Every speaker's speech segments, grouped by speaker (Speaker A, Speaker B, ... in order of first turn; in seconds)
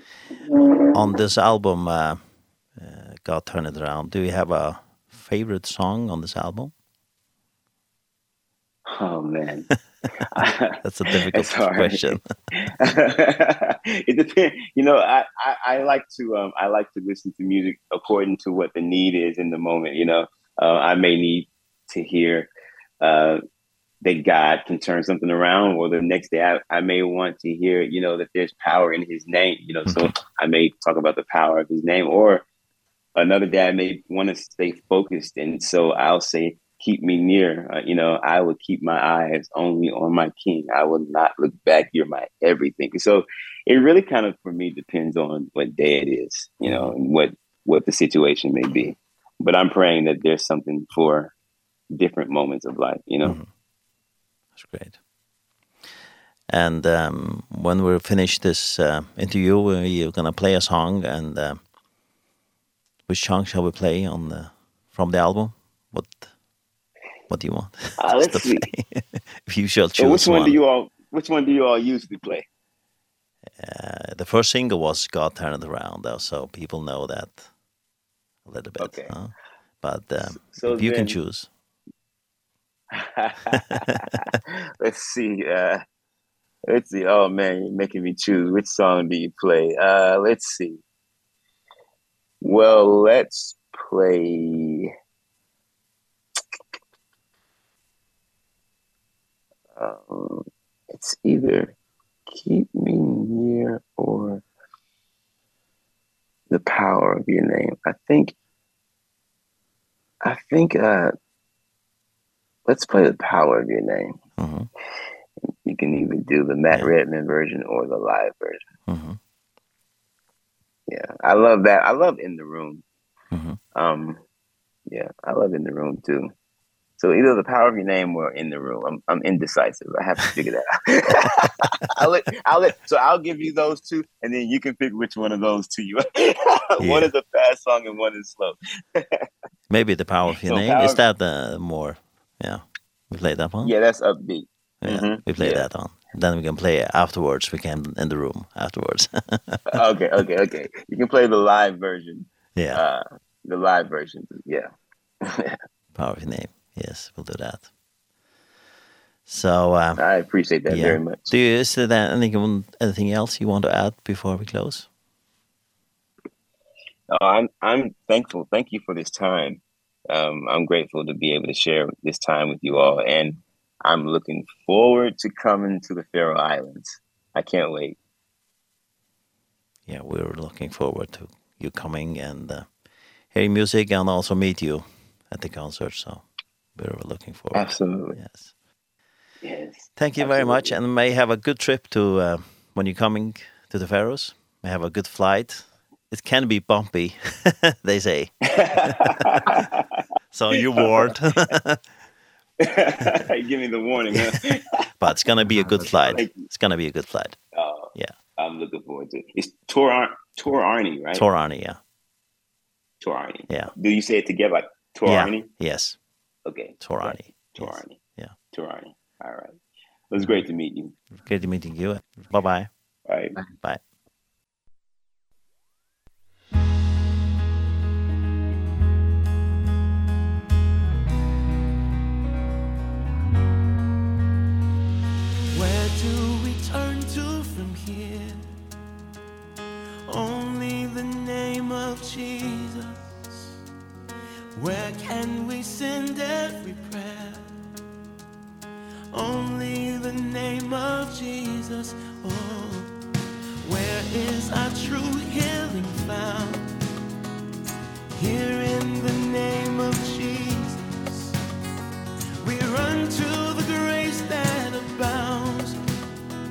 Speaker A: 0.9-2.2, 2.7-6.7, 10.8-12.3, 46.6-46.9, 54.5-55.0, 56.5-61.6, 63.1-66.3, 67.3-70.6, 73.6-77.5, 78.5-81.5, 114.4-114.7, 118.9-119.2, 123.3-123.6, 136.8-137.1, 139.7-143.7, 144.8-149.8, 152.5-152.8, 155.9-157.7, 159.2-160.1, 160.7-164.9, 179.9-182.7, 183.3-186.2, 186.8-188.4, 190.0-199.5, 200.3-201.8, 205.0-207.4, 211.1-211.8, 213.5-213.7, 215.0-216.0, 216.8-218.3, 221.2-222.7, 223.5-223.8
Speaker B: 8.8-9.7, 10.2-12.0, 12.5-22.5, 23.0-23.4, 24.0-32.4, 33.1-51.3, 51.9-53.4, 68.0-68.7, 70.0-72.4, 78.8-79.1, 80.2-81.2, 82.9-85.8, 86.7-90.8, 92.4-94.9, 99.8-101.7, 102.3-104.4, 106.5-108.3, 110.2-111.1, 112.7-114.2, 115.6-118.6, 120.9-122.8, 123.7-124.2, 124.9-126.3, 127.0-139.2, 140.4-141.0, 143.6-145.6, 149.7-154.7, 155.2-155.6, 160.0-161.3, 167.1-178.0, 187.5-188.2, 189.4-190.8, 198.5-199.8, 202.6-204.9, 206.0-206.4, 207.5-211.2, 213.0-215.5, 216.4-218.0, 218.5-219.6, 220.1-220.9, 223.1-223.3
Speaker C: 235.5-238.5, 240.1-243.0, 244.6-247.5, 249.1-252.9, 253.6-256.7, 258.1-261.3, 262.4-265.8